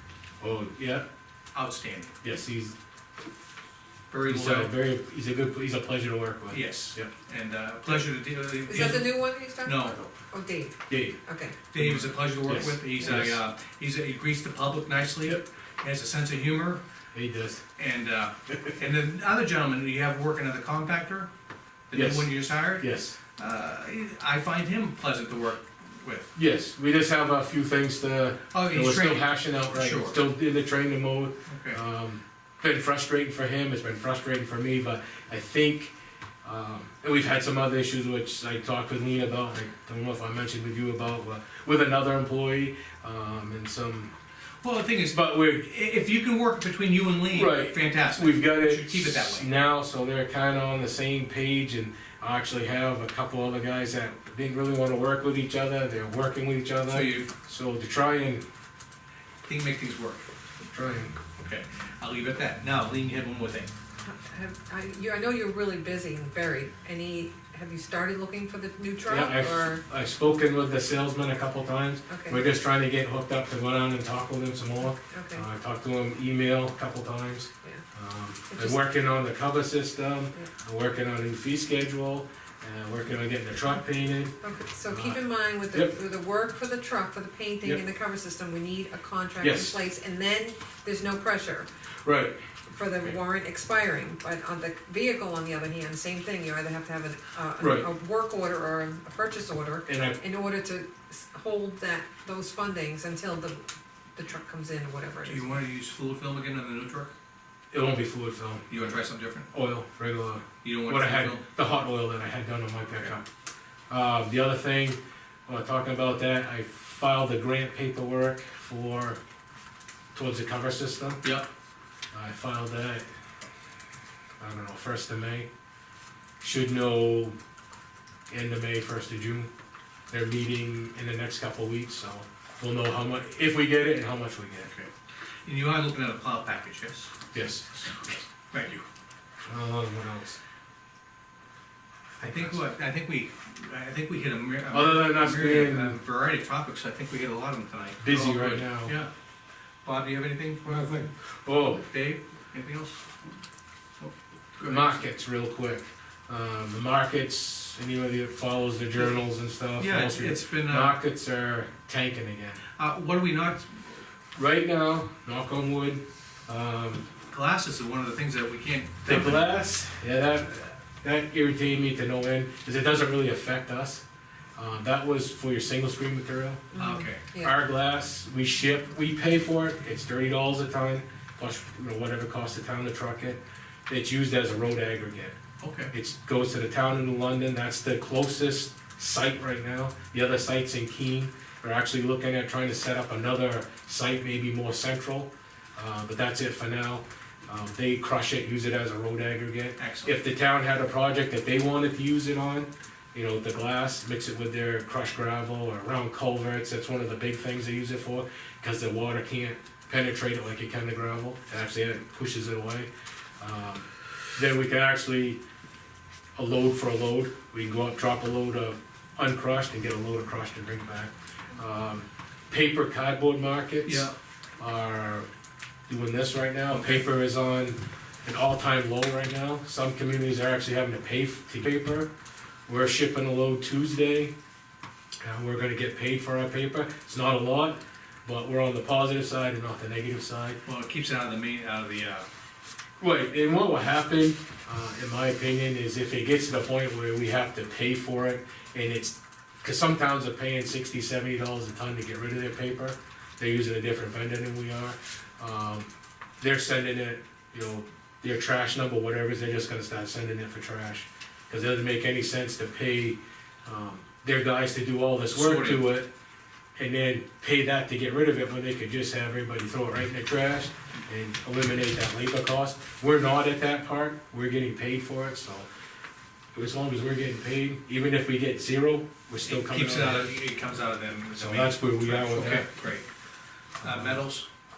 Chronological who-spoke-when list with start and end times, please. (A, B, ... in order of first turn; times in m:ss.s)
0:00.4-0:01.1 A
0:01.5-0:02.1 B
0:02.2-0:02.7 A
0:04.1-0:04.7 B
0:04.2-0:07.1 A
0:06.5-0:10.0 B
0:08.7-0:11.6 C
0:10.9-0:11.2 A
0:11.7-0:16.8 B
0:11.8-0:13.4 A
0:17.1-0:17.6 A
0:17.8-0:21.3 B
0:21.9-0:26.3 B
0:21.9-0:23.2 A
0:26.3-0:44.1 A
0:28.5-0:30.2 B
0:31.5-0:31.8 B
0:44.6-0:49.5 B
0:45.1-0:45.7 A
0:47.3-0:58.4 A
0:56.9-0:57.3 B
0:59.4-1:00.3 B
1:00.7-1:01.1 A
1:01.4-1:03.7 B
1:04.0-1:09.8 C
1:09.0-1:24.3 A
1:12.1-1:12.4 C
1:15.0-1:15.5 C
1:18.5-1:18.8 C
1:24.4-1:31.7 C
1:24.9-1:25.9 A
1:29.4-1:29.8 A
1:32.0-1:32.4 A
1:32.7-1:45.5 C
1:37.6-1:37.9 A
1:39.9-1:40.2 A
1:45.2-1:47.1 B
1:47.7-1:48.8 A
1:48.7-1:49.5 B
1:49.5-1:53.2 A
1:50.6-1:51.4 B
1:53.9-1:59.2 A
2:00.1-2:01.3 A
2:01.2-2:01.5 B
2:02.1-2:03.0 A
2:04.4-2:05.5 A
2:06.4-2:07.4 A
2:08.3-2:09.5 A
2:10.1-2:14.7 A
2:14.6-2:14.9 B
2:15.4-2:17.2 B
2:17.3-2:17.8 A
2:18.5-2:18.8 B
2:19.4-2:20.4 A
2:22.2-2:22.6 A
2:22.3-2:29.1 B
2:24.7-2:26.0 A
2:28.0-2:29.0 A
2:29.8-2:31.1 B
2:30.7-2:31.9 A
2:31.8-2:33.0 B
2:34.0-2:35.0 B
2:34.6-2:42.6 A
2:39.8-2:41.0 B
2:42.8-2:43.9 B
2:44.4-2:47.0 A
2:47.3-2:49.5 B
2:49.1-2:54.0 A
2:54.6-2:56.8 A
2:56.7-2:57.5 C
2:56.8-2:57.2 B
2:57.3-3:05.4 A
3:05.6-3:05.9 B
3:05.9-3:32.9 A
3:19.8-3:20.2 B
3:33.4-3:33.8 A
3:34.4-3:35.4 A
3:36.4-3:45.2 A
3:43.8-3:44.1 B
3:45.9-3:52.1 A
3:46.7-3:47.0 B
3:52.7-3:54.3 A
3:55.2-4:00.6 A
4:00.6-4:02.3 B
4:03.0-4:15.9 A
4:16.4-4:26.1 A
4:25.3-4:25.9 B
4:26.8-4:35.7 A
4:36.5-4:40.3 A
4:39.4-4:43.1 B
4:41.4-4:42.7 A
4:43.8-4:44.4 B
4:43.8-4:44.2 A